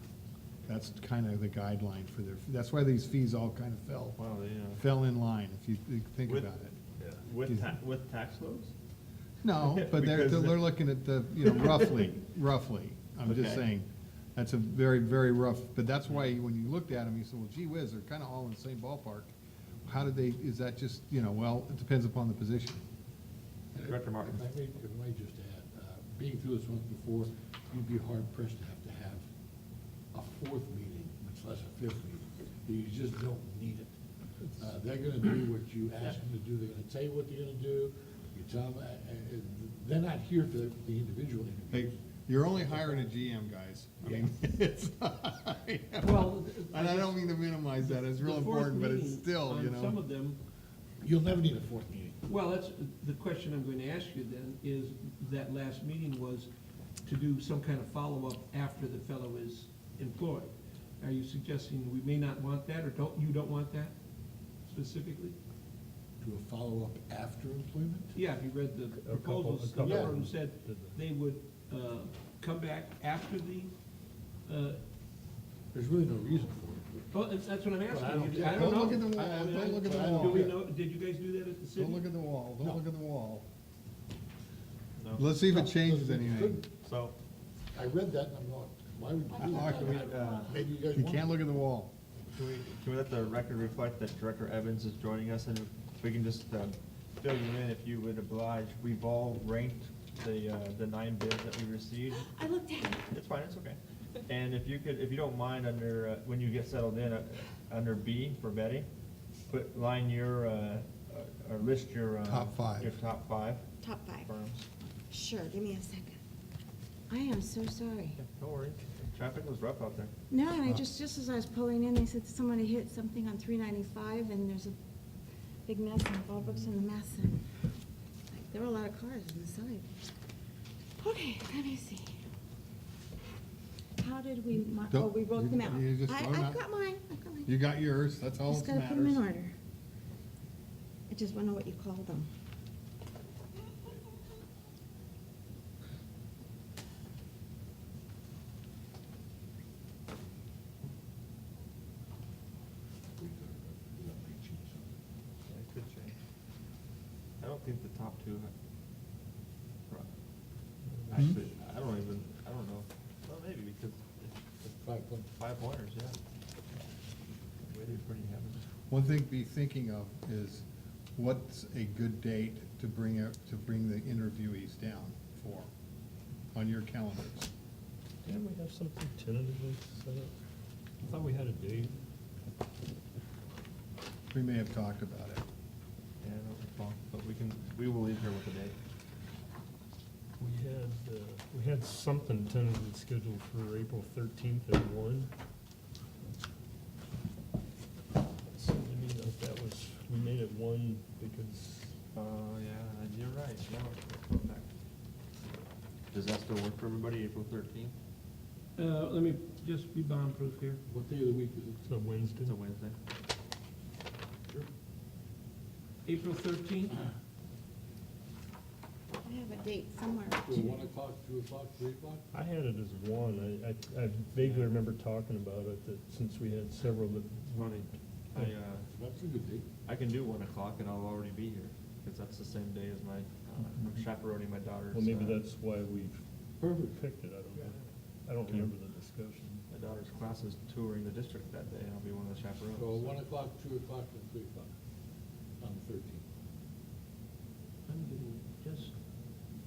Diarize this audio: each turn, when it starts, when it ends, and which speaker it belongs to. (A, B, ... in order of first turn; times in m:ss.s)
0:00.7-0:04.2 A
0:04.2-0:04.8 B
0:04.8-0:06.8 A
0:07.0-0:08.7 B
0:09.4-0:19.3 A
0:09.6-0:10.8 B
0:11.4-0:12.0 B
0:13.3-0:13.6 B
0:19.8-0:22.8 A
0:23.7-0:29.2 C
0:23.8-0:24.4 B
0:30.1-0:33.9 C
0:34.6-0:42.0 C
0:41.7-0:50.0 A
0:46.0-0:50.4 D
0:51.0-0:52.2 C
0:52.2-0:56.5 D
0:57.0-1:03.9 D
1:04.6-1:05.4 D
1:06.2-1:08.1 C
1:08.2-1:13.7 D
1:08.9-1:11.0 E
1:09.8-1:10.2 C
1:14.5-1:14.8 D
1:15.7-1:17.0 C
1:17.1-1:22.0 D
1:17.9-1:20.6 C
1:18.4-1:20.5 A
1:21.7-1:23.4 A
1:25.0-1:25.3 B
1:25.2-1:26.6 A
1:25.5-1:26.7 C
1:26.8-1:27.2 B
1:27.7-1:31.4 C
1:29.3-1:30.6 F
1:29.5-1:30.1 A
1:29.6-1:30.6 B
1:30.9-1:31.9 A
1:32.3-1:42.3 B
1:42.2-1:43.1 F
1:43.1-1:48.9 B
1:49.5-1:54.7 B
1:52.2-1:52.9 A
1:53.8-1:54.3 F
1:55.1-1:56.2 F
1:57.1-1:58.2 F
1:58.2-2:00.1 B
2:00.3-2:04.7 F
2:05.7-2:07.4 F
2:08.3-2:09.9 F
2:11.0-2:12.2 F
2:14.0-2:17.5 F
2:14.9-2:16.6 A
2:17.5-2:19.3 A
2:18.5-2:19.5 F
2:21.1-2:22.3 F
2:33.2-2:35.0 C
2:35.5-2:36.2 B
2:37.4-2:38.5 B
2:41.1-2:44.4 B
2:44.6-2:45.3 C
2:45.3-2:46.2 B
2:47.7-2:48.6 B
2:48.9-2:50.6 A
2:51.2-2:55.7 A
2:56.5-2:57.5 A
2:58.2-3:00.3 E
3:01.0-3:02.0 E
3:04.3-3:05.4 A
3:06.2-3:08.8 B
3:10.4-3:15.3 E
3:18.5-3:21.9 E
3:22.1-3:24.7 B
3:26.1-3:27.9 B
3:28.8-3:30.8 D
3:30.9-3:31.8 C
3:31.8-3:32.6 E
3:32.4-3:33.0 B
3:36.0-3:37.1 D
3:39.2-3:40.8 F
3:40.5-3:42.3 C
3:42.3-3:48.6 E
3:44.4-3:44.7 B
3:48.3-3:48.9 B
3:48.9-3:49.7 C
3:49.9-3:55.4 B
3:54.9-3:56.2 E
3:56.6-3:57.0 C
3:56.8-3:59.6 E
3:59.7-4:03.2 B
4:02.7-4:04.7 C
4:05.6-4:06.2 C
4:07.9-4:09.0 D